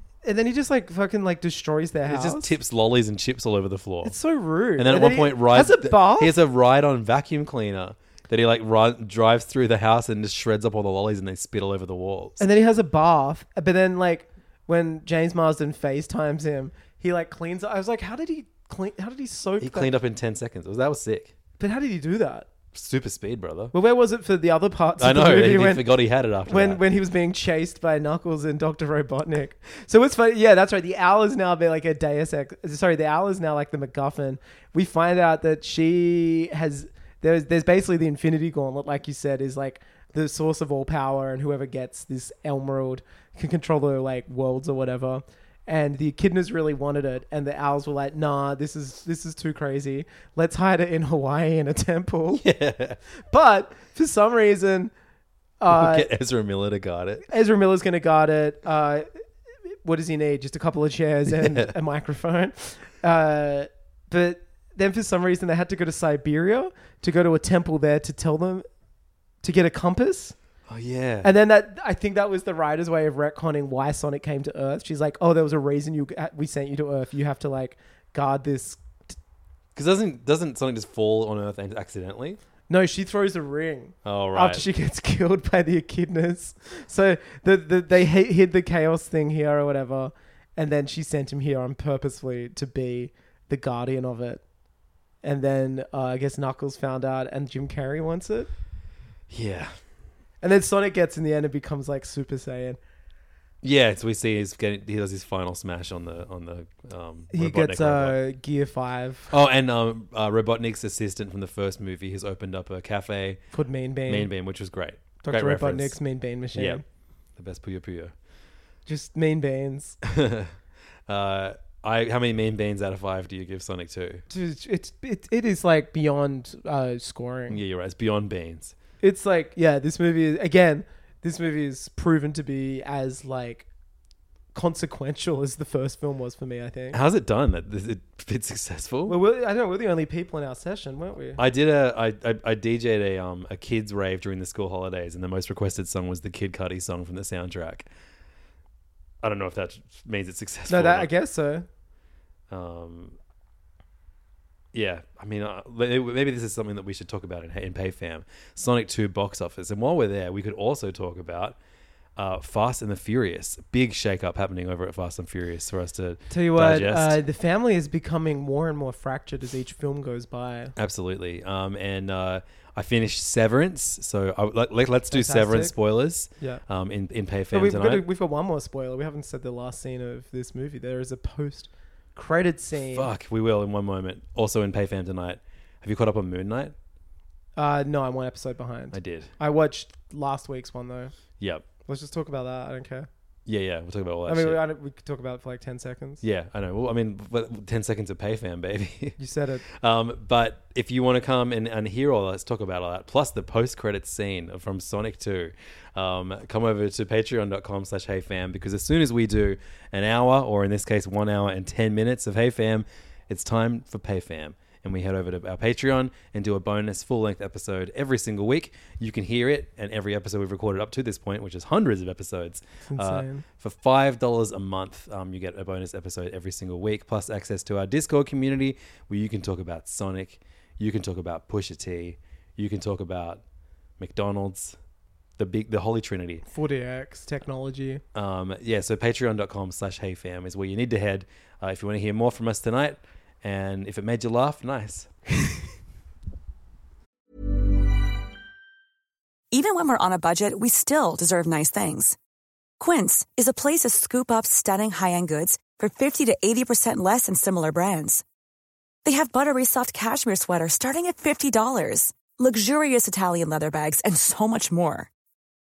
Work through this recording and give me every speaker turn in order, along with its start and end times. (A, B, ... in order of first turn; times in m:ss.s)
0:00.2-0:02.5 A
0:02.1-0:04.1 B
0:04.0-0:06.3 A
0:04.8-0:12.4 B
0:12.4-0:19.9 A
0:19.6-0:21.3 B
0:21.6-0:22.5 A
0:22.7-0:23.7 B
0:23.7-0:25.8 A
0:25.0-0:26.8 B
0:26.4-0:52.4 A
0:52.4-0:53.0 B
0:53.3-0:54.9 A
0:55.6-0:56.1 A
0:55.7-0:57.3 B
0:57.3-0:59.1 A
0:59.8-1:08.6 A
1:01.3-1:01.7 B
1:09.4-1:10.4 A
1:10.7-1:11.3 B
1:11.2-1:18.8 A
1:19.7-1:22.4 B
1:22.7-1:34.4 A
1:24.0-1:24.6 B
1:35.2-1:38.5 A
1:39.3-1:39.7 B
1:40.4-1:42.8 A
1:43.6-1:48.2 B
1:47.3-1:49.3 A
1:49.3-1:53.4 B
1:53.5-1:54.3 A
1:54.1-1:56.0 B
1:55.2-1:56.8 A
1:56.5-1:56.8 B
1:57.4-1:58.1 B
1:58.8-2:00.0 A
2:00.0-2:00.5 B
2:01.1-2:04.2 B
2:04.3-2:07.6 A
2:07.5-2:08.7 B
2:09.0-2:13.7 A
2:14.5-2:17.0 A
2:16.9-2:19.2 B
2:19.1-2:21.4 A
2:21.4-2:27.9 B
2:29.2-2:31.1 B
2:30.7-2:31.7 A
2:32.5-2:33.2 B
2:34.7-2:41.6 B
2:42.2-2:47.2 B
2:46.3-2:50.7 A
2:50.8-2:58.0 B
2:55.1-2:55.7 A
2:57.5-3:03.1 A
3:02.9-3:06.7 B
3:07.6-3:11.1 A
3:08.9-3:09.3 B
3:11.4-3:11.6 B
3:11.9-3:13.1 A
3:13.4-3:14.6 B
3:14.2-3:16.2 A
3:16.2-3:53.4 B
3:19.2-3:19.6 A
3:42.9-3:43.4 A
3:54.0-3:54.8 B
3:55.4-3:56.4 B
3:56.5-3:58.0 A
3:58.1-4:05.5 B
4:09.5-4:12.2 C
4:12.8-4:18.2 C
4:19.0-4:25.1 C